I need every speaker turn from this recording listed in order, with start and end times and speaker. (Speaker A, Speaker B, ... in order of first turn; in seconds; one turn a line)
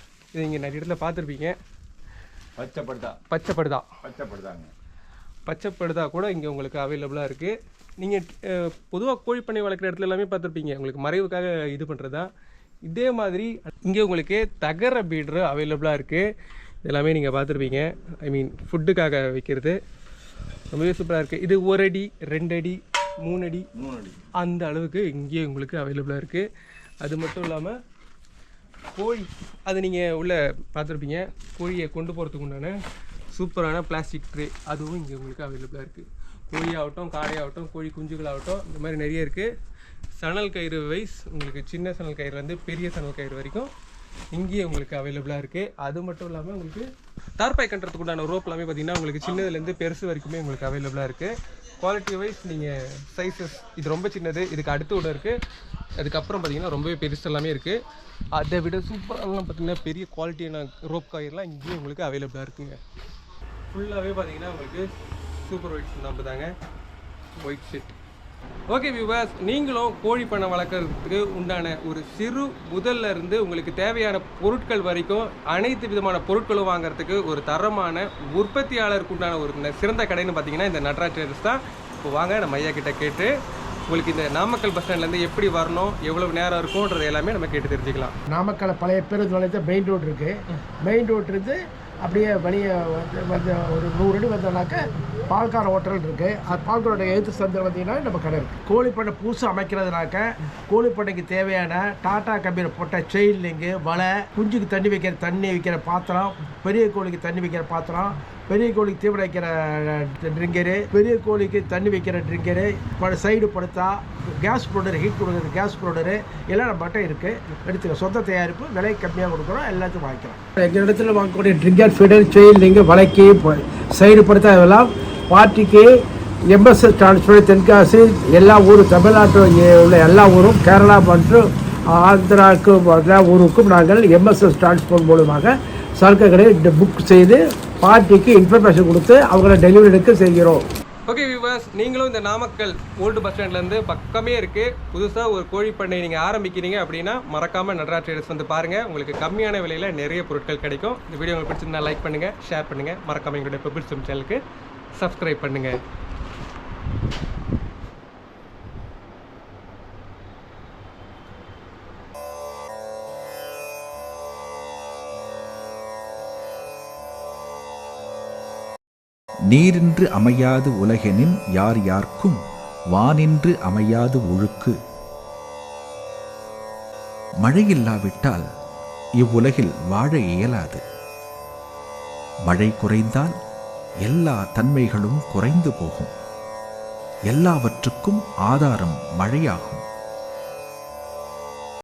Speaker A: 0.3-1.6
Speaker B: 2.6-3.1
Speaker A: 3.1-3.9
Speaker B: 4.1-4.7
Speaker A: 5.5-12.3
Speaker A: 12.8-16.3
Speaker A: 16.8-19.8
Speaker A: 20.7-23.7
Speaker A: 24.2-26.5
Speaker A: 27.0-27.8
Speaker A: 28.9-32.8
Speaker A: 33.3-39.5
Speaker A: 40.2-43.7
Speaker A: 44.3-46.9
Speaker A: 47.4-55.4
Speaker A: 56.0-57.8
Speaker A: 58.3-62.8
Speaker A: 63.7-66.5
Speaker A: 67.4-68.0
Speaker A: 68.7-83.3
Speaker A: 83.9-88.1
Speaker C: 88.3-126.0
Speaker C: 126.5-140.6
Speaker A: 141.1-154.4
Speaker A: 154.9-155.8
Speaker B: 169.5-172.4
Speaker B: 172.9-174.8
Speaker B: 177.4-178.4
Speaker B: 179.2-180.8
Speaker B: 182.4-183.3
Speaker B: 184.0-186.1
Speaker B: 187.3-189.8